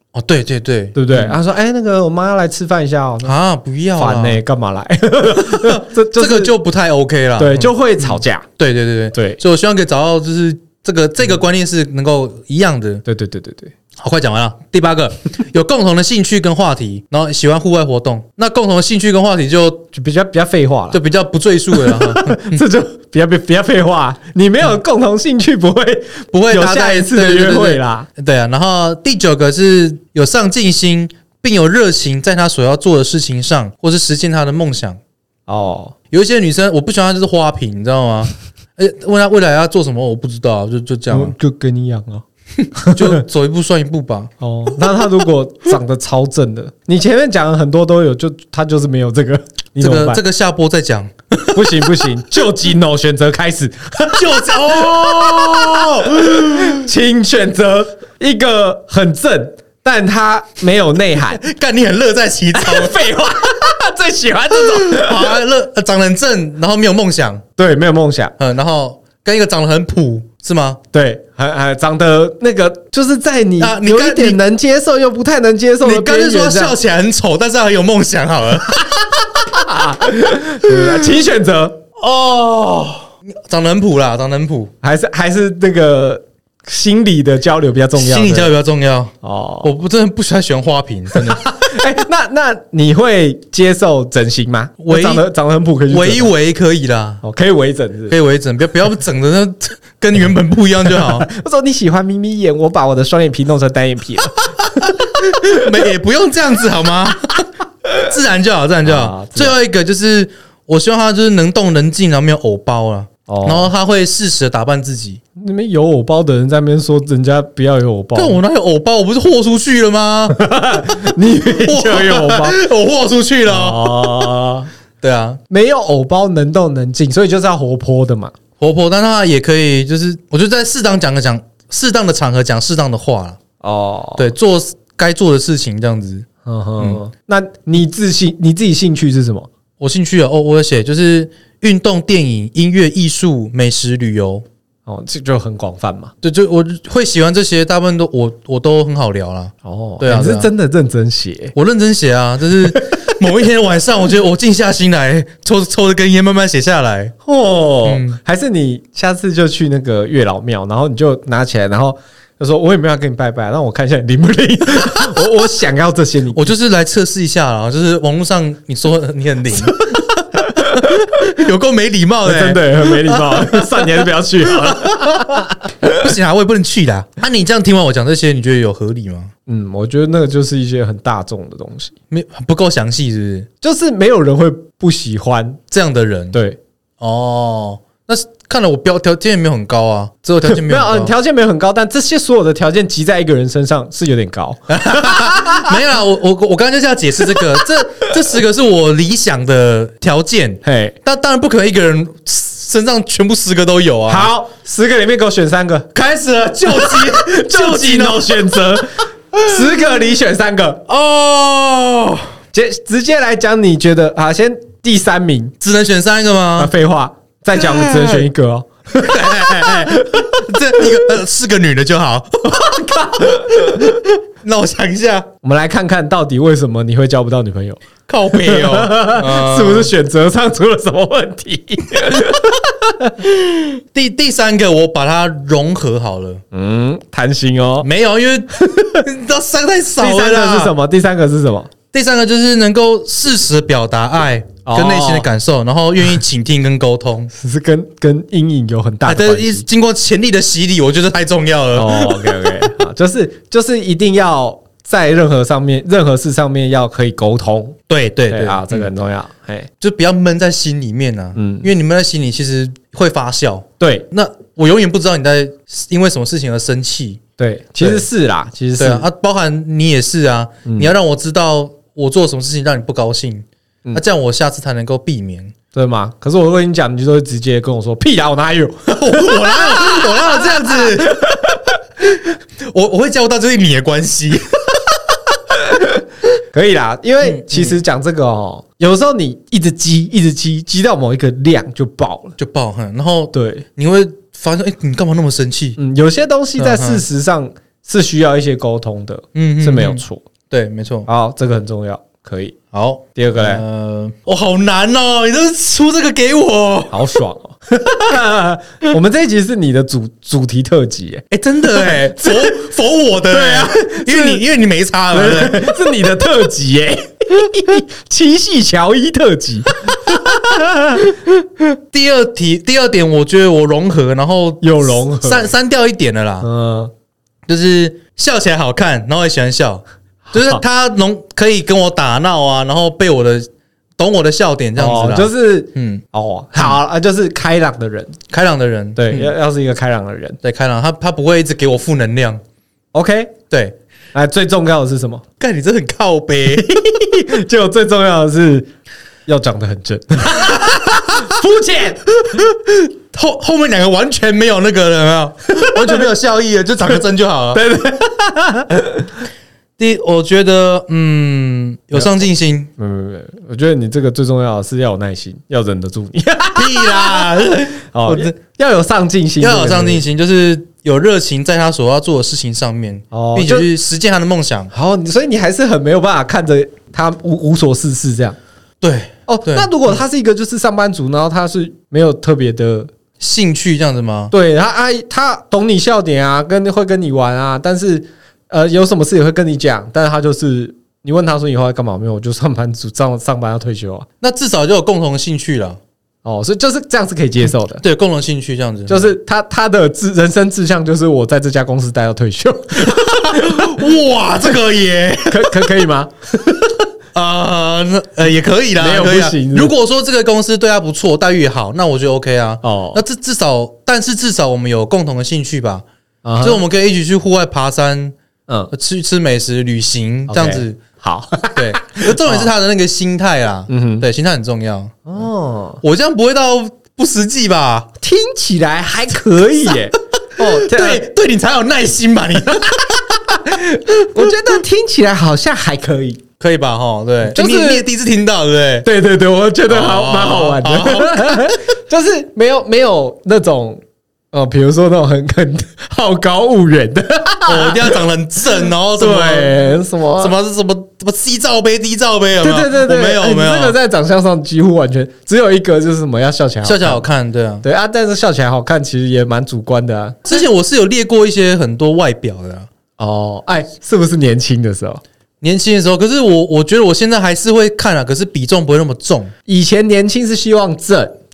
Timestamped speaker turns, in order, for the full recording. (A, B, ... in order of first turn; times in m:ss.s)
0:00.1-0:01.4 A
0:00.9-0:03.3 B
0:03.2-0:04.4 A
0:04.0-0:06.5 B
0:05.3-0:13.0 A
0:07.4-0:08.4 B
0:09.1-0:09.4 B
0:13.0-0:13.7 B
0:14.0-0:19.9 A
0:19.9-0:21.0 B
0:20.9-0:22.6 A
0:21.7-0:28.1 B
0:26.3-0:35.0 A
0:35.5-0:35.9 B
0:36.1-0:41.3 A
0:41.1-0:42.2 B
0:42.7-0:43.2 B
0:42.8-0:44.3 A
0:44.4-0:50.2 B
0:49.8-0:52.1 A
0:51.5-1:01.4 B
0:54.1-0:56.8 A
1:01.2-1:03.0 A
1:02.5-1:05.4 B
1:04.5-1:07.4 A
1:07.6-1:08.3 B
1:08.4-1:10.8 A
1:10.9-1:16.8 B
1:13.6-1:14.4 A
1:15.8-1:18.8 A
1:18.9-1:21.8 B
1:20.7-1:21.0 A
1:22.0-1:24.7 A
1:24.8-1:28.5 B
1:27.9-1:31.4 A
1:29.2-1:29.7 B
1:31.1-1:36.3 B
1:34.8-1:35.2 A
1:35.9-1:37.2 A
1:37.2-1:38.1 B
1:38.1-1:41.3 A
1:40.9-1:45.8 B
1:44.6-1:55.2 A
1:48.8-1:49.5 B
1:53.2-1:53.7 B
1:55.3-1:58.4 B
1:58.1-2:04.4 A
2:00.3-2:02.6 B
2:03.5-2:04.7 B
2:05.0-2:05.4 A
2:05.5-2:08.3 B
2:08.6-2:13.4 A
2:13.6-2:14.3 B
2:14.2-2:16.2 A
2:16.4-2:19.5 B
2:19.8-2:24.4 A
2:24.9-2:26.1 B
2:26.2-2:30.5 A
2:29.6-2:31.5 B
2:31.5-2:37.1 A
2:32.7-2:33.2 B
2:37.2-2:46.5 B
2:37.8-2:38.2 A
2:46.3-2:59.3 A
2:49.5-2:51.0 B
2:52.2-2:56.0 B
2:59.5-3:01.9 B
3:02.1-3:03.5 A
3:03.6-3:05.6 B
3:05.7-3:06.4 A
3:06.3-3:06.6 B
3:07.0-3:11.1 A
3:10.4-3:15.8 B
3:14.7-3:24.3 A
3:17.3-3:17.6 B
3:20.6-3:20.9 B
3:24.1-3:25.9 B
3:25.9-3:28.6 A
3:26.6-3:30.8 B
3:29.4-3:29.8 A
3:30.9-3:32.3 A
3:32.5-3:35.5 B
3:35.6-3:36.7 A
3:36.6-3:40.5 B
3:37.5-3:38.2 A
3:38.9-3:45.3 A
3:42.4-3:44.0 B
3:45.4-3:47.8 B
3:48.1-3:49.9 A
3:48.3-3:53.1 B
3:53.2-3:56.4 A
3:56.5-3:57.9 B
3:57.8-4:00.7 A
3:58.5-3:59.0 B
4:00.0-4:01.7 B
4:01.9-4:07.3 A
4:04.6-4:05.3 B
4:07.3-4:09.6 B
4:09.0-4:12.7 A
4:11.7-4:19.7 B
4:17.9-4:18.9 A
4:19.8-4:27.2 A
4:21.3-4:21.7 B
4:23.8-4:24.0 B
4:27.4-4:29.1 B
4:28.8-4:35.5 A
4:30.6-4:30.9 B
4:35.7-4:41.4 B
4:38.9-4:44.6 A
4:46.5-4:52.4 B
4:47.2-4:47.8 A
4:52.4-4:55.8 A
4:53.3-4:53.6 B
4:55.8-5:00.2 B
4:56.6-4:57.0 A
4:59.3-5:01.1 A
5:01.1-5:02.5 B
5:02.7-5:07.0 A
5:03.1-5:03.6 B
5:06.9-5:12.7 B
5:11.3-5:15.8 A
5:13.3-5:14.4 B
5:15.1-5:21.2 B
5:21.9-5:26.4 A
5:24.6-5:25.5 B
5:26.4-5:26.9 B
5:27.5-5:36.0 A
5:30.3-5:30.6 B
5:34.8-5:38.2 B
5:38.3-5:39.3 A
5:39.0-5:40.4 B
5:40.4-5:42.4 A
5:42.9-5:43.3 B
5:43.5-5:43.8 A
5:44.1-5:45.2 B
5:45.4-5:46.9 A
5:46.5-5:48.7 B
5:49.3-5:52.4 B
5:50.4-5:51.3 A
5:52.3-5:57.6 A
5:55.6-5:56.1 B
5:57.5-5:59.1 B
5:59.8-6:02.7 A
6:02.8-6:10.0 B
6:06.5-6:08.3 A
6:09.4-6:14.7 A
6:13.1-6:13.7 B
6:14.7-6:18.4 B
6:18.8-6:20.0 A
6:19.3-6:22.9 B
6:23.2-6:24.3 A
6:24.3-6:34.1 B
6:34.2-6:35.8 A
6:36.2-6:37.8 B
6:37.8-6:39.1 A
6:38.9-6:43.8 B
6:42.9-6:45.6 A
6:45.3-6:46.9 B
6:47.1-6:55.8 A
6:48.8-6:49.7 B
6:52.6-6:53.0 B
6:56.2-6:56.6 B
6:56.4-6:58.1 A
6:58.7-7:00.8 A
7:00.3-7:02.5 B
7:01.5-7:05.0 A
7:03.7-7:04.0 B
7:05.0-7:05.8 B
7:05.8-7:07.9 A
7:08.0-7:11.0 B
7:10.4-7:13.3 A
7:13.2-7:16.2 B
7:16.4-7:18.9 A
7:17.2-7:17.9 B
7:18.8-7:28.0 B
7:19.7-7:21.6 A
7:27.4-7:29.6 A
7:28.9-7:30.3 B
7:30.2-7:33.8 A
7:32.4-7:37.0 B
7:36.6-7:37.6 A
7:37.6-7:40.2 B
7:40.2-7:42.7 A
7:43.0-7:45.0 B
7:45.4-7:49.3 A
7:49.5-7:51.1 B